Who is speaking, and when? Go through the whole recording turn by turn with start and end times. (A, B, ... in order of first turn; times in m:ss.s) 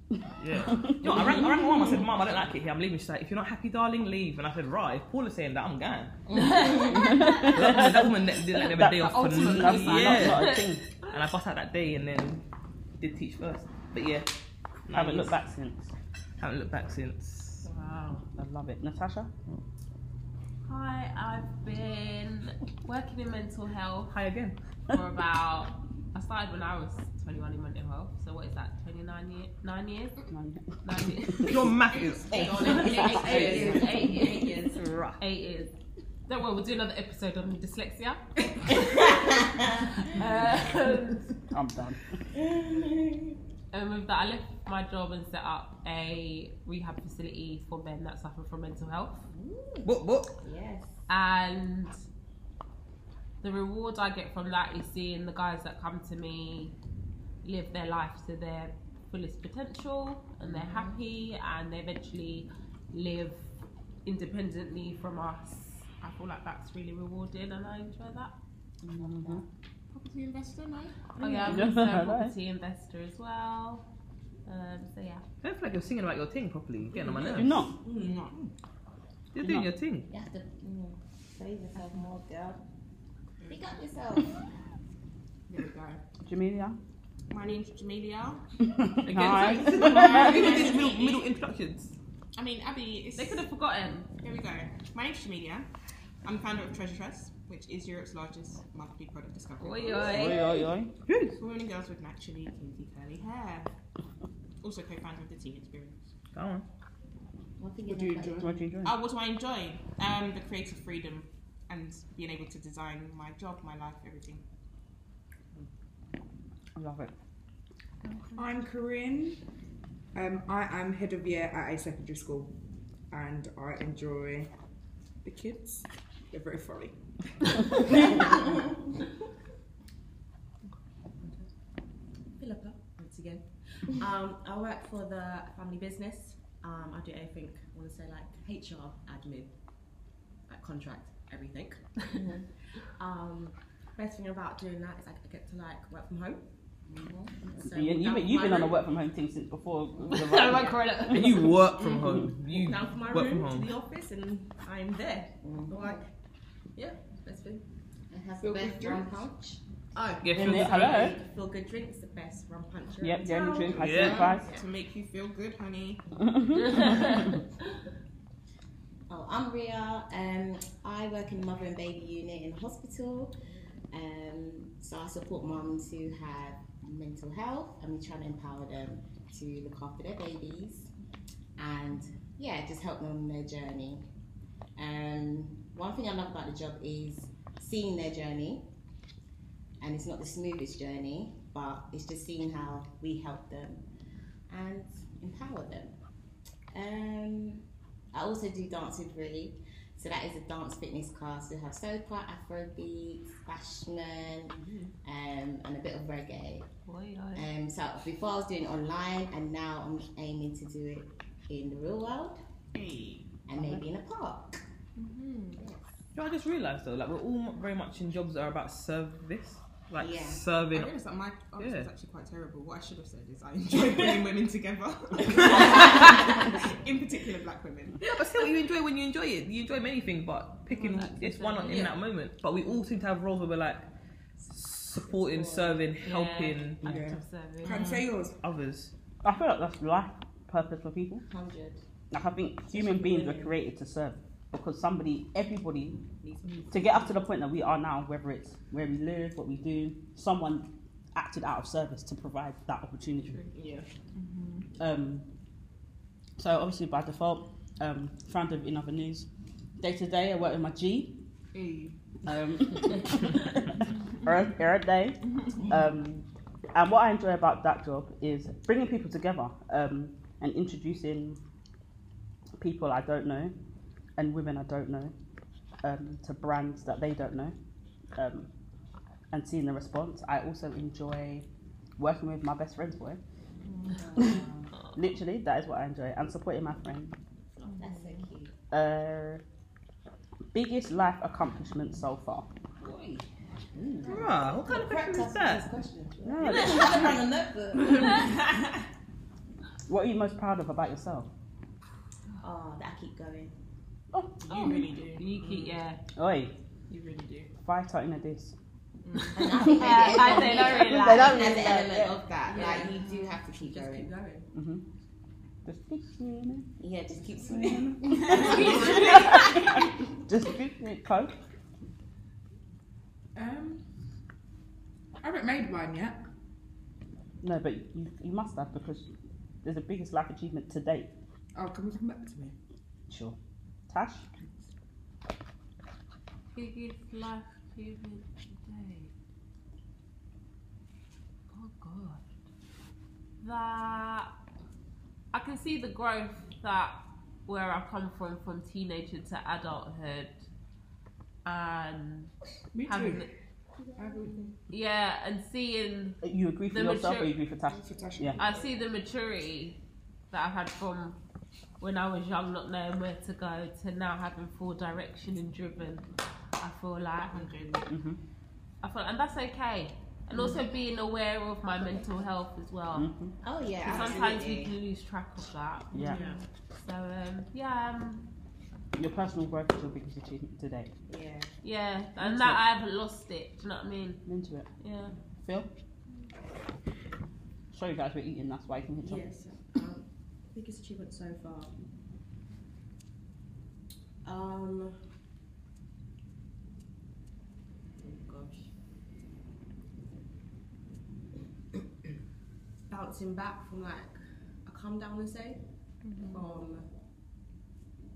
0:00.4-0:06.3 A
0:00.7-0:01.3 B
0:01.3-0:02.2 C
0:06.3-0:07.4 D
0:06.9-0:10.8 B
0:07.2-0:12.4 A
0:08.9-0:11.1 D
0:13.0-0:14.3 A
0:14.9-0:15.4 A
0:14.9-0:15.9 B
0:16.4-0:17.6 A
0:17.6-0:18.2 D
0:18.4-0:19.3 B
0:20.6-0:24.1 D
0:24.1-0:24.5 A
0:24.9-0:30.2 D
0:30.3-0:31.6 B
0:30.8-0:35.7 D
0:31.4-0:32.5 A
0:31.9-0:34.7 E
0:32.3-0:34.1 B
0:33.0-0:33.4 F
0:33.3-0:33.6 A
0:34.7-0:35.2 A
0:36.3-0:39.1 D
0:40.0-0:41.3 D
0:41.5-0:42.0 B
0:43.7-0:49.2 D
0:49.4-0:49.8 F
0:49.8-0:50.3 A
0:50.4-0:50.9 F
0:51.1-0:51.9 D
0:53.4-0:56.7 D
0:57.4-1:03.4 D
1:00.5-1:00.9 F
1:04.0-1:08.3 D
1:08.9-1:09.4 B
1:09.9-1:11.1 C
1:11.2-1:13.8 D
1:11.2-1:11.7 E
1:11.4-1:12.4 B
1:14.4-1:15.2 D
1:15.4-1:17.6 A
1:17.0-1:18.4 C
1:17.4-1:17.8 B
1:17.8-1:18.5 E
1:19.3-1:20.1 A
1:19.3-1:19.7 B
1:20.1-1:22.6 F
1:23.5-1:24.3 F
1:25.5-1:26.0 C
1:26.2-1:26.8 B
1:27.3-1:28.4 C
1:28.6-1:30.6 B
1:29.0-1:31.9 A
1:29.1-1:31.3 C
1:32.3-1:33.4 C
1:33.2-1:34.1 D
1:34.2-1:35.7 C
1:36.2-1:40.4 C
1:39.6-1:40.7 D
1:40.0-1:40.9 B
1:41.0-1:41.4 A
1:41.4-1:43.7 C
1:44.6-1:46.1 C
1:46.3-1:46.6 A
1:47.6-1:48.5 F
1:48.0-1:48.4 G
1:48.4-1:49.0 B
1:48.8-1:54.4 C
1:56.8-1:57.1 B
1:58.4-1:59.4 G
2:00.1-2:02.5 G
2:03.1-2:04.5 G
2:05.2-2:06.9 G
2:12.4-2:19.5 E
2:20.5-2:21.8 E
2:22.2-2:22.4 F
2:23.0-2:26.4 E
2:26.9-2:27.3 F
2:27.5-2:28.8 E
2:27.5-2:32.3 B
2:30.1-2:31.6 D
2:31.1-2:33.7 A
2:32.5-2:36.0 E
2:35.4-2:36.0 F
2:36.8-2:37.6 E
2:38.1-2:39.6 F
2:38.4-2:39.0 G
2:38.6-2:39.0 E
2:39.9-2:44.6 E
2:40.2-2:41.0 A
2:40.3-2:41.2 B
2:43.0-2:44.4 B
2:43.7-2:44.3 A
2:44.2-2:46.0 C
2:46.2-2:47.3 B
2:46.6-2:47.3 D
2:49.1-2:53.3 F
2:53.9-3:00.9 F
3:01.6-3:04.0 F
3:04.8-3:08.6 F
3:09.8-3:13.8 F
3:14.5-3:15.9 F
3:16.7-3:26.7 F
3:26.8-3:27.5 D
3:27.3-3:32.4 F
3:32.7-3:33.3 C
3:33.5-3:34.6 F
3:33.6-3:33.8 B
3:35.0-3:35.6 C
3:36.1-3:40.9 A
3:40.0-3:40.4 F
3:40.7-3:48.0 C
3:41.6-3:41.9 A
3:45.5-3:46.3 D
3:48.0-3:53.8 A
3:50.7-3:51.9 D
3:51.6-3:52.0 C
3:54.4-3:57.1 A
3:55.0-3:55.8 E
3:56.0-3:58.0 D
3:56.8-3:58.4 G
3:57.6-3:58.0 C
3:58.4-3:58.9 A
3:59.2-4:01.2 B
4:01.3-4:01.8 E
4:02.1-4:06.0 B
4:02.7-4:03.5 E
4:06.2-4:06.8 E
4:06.4-4:06.9 D
4:06.7-4:13.4 B
4:13.5-4:14.6 C
4:14.8-4:15.2 B
4:16.4-4:19.3 B
4:19.8-4:21.1 B
4:21.5-4:22.0 C
4:22.2-4:31.4 B
4:32.6-4:33.5 B
4:34.2-4:35.1 B
4:35.8-4:37.5 B
4:38.2-4:38.5 B
4:39.3-4:41.4 B
4:42.0-4:43.2 B
4:44.0-4:44.4 E
4:44.2-4:47.2 B
4:47.6-4:48.2 C
4:47.8-4:48.5 F
4:48.7-4:49.4 B
4:50.5-4:52.5 B
4:53.8-4:54.4 E
4:54.0-4:55.7 A
4:54.0-4:58.3 F
4:56.2-4:57.2 B
4:56.4-4:57.2 E
4:57.9-4:58.2 E
4:59.9-5:01.3 B
5:02.4-5:03.5 F
5:04.1-5:04.8 B
5:04.4-5:05.8 C
5:04.5-5:06.0 D
5:06.1-5:06.5 B
5:06.9-5:07.5 C
5:07.6-5:08.5 B
5:09.0-5:09.5 C
5:09.3-5:14.1 F
5:09.6-5:11.6 D
5:10.1-5:12.2 B
5:12.5-5:14.5 E
5:14.5-5:14.8 B
5:15.6-5:16.7 B
5:16.8-5:18.4 F
5:17.4-5:21.3 B
5:18.0-5:19.4 E
5:18.3-5:19.5 C
5:23.3-5:23.8 G
5:25.2-5:26.2 G
5:27.4-5:29.1 B
5:29.6-5:31.1 B
5:31.5-5:32.5 G
5:33.1-5:33.4 B
5:33.9-5:34.2 B
5:36.5-5:39.1 D
5:41.5-5:42.2 D
5:43.4-5:44.3 D
5:45.3-5:50.3 D
5:51.4-5:52.3 D
5:52.7-5:53.3 G
5:52.8-5:53.3 D
5:54.0-5:54.5 G
5:54.7-5:56.2 D
5:56.2-5:58.4 B
5:56.7-5:57.4 D
5:57.7-5:58.6 G
5:58.4-5:59.8 D
6:00.3-6:01.2 D
6:01.8-6:06.0 D
6:06.6-6:07.5 D
6:07.2-6:07.9 C
6:07.9-6:08.2 B
6:08.8-6:13.1 D
6:12.9-6:13.3 B
6:13.4-6:14.7 F
6:13.8-6:16.2 D
6:13.8-6:14.4 E
6:15.9-6:16.2 B
6:16.0-6:16.4 C
6:16.8-6:18.2 D
6:18.9-6:20.9 B
6:21.1-6:21.5 E
6:21.6-6:24.2 D
6:22.2-6:22.6 B
6:24.2-6:24.7 B
6:24.8-6:25.1 D
6:25.4-6:25.7 B
6:27.7-6:29.2 B
6:29.0-6:31.7 E
6:34.2-6:35.0 E
6:37.9-6:38.7 E
6:42.9-6:45.6 E
6:46.0-6:46.4 C
6:46.3-6:46.9 E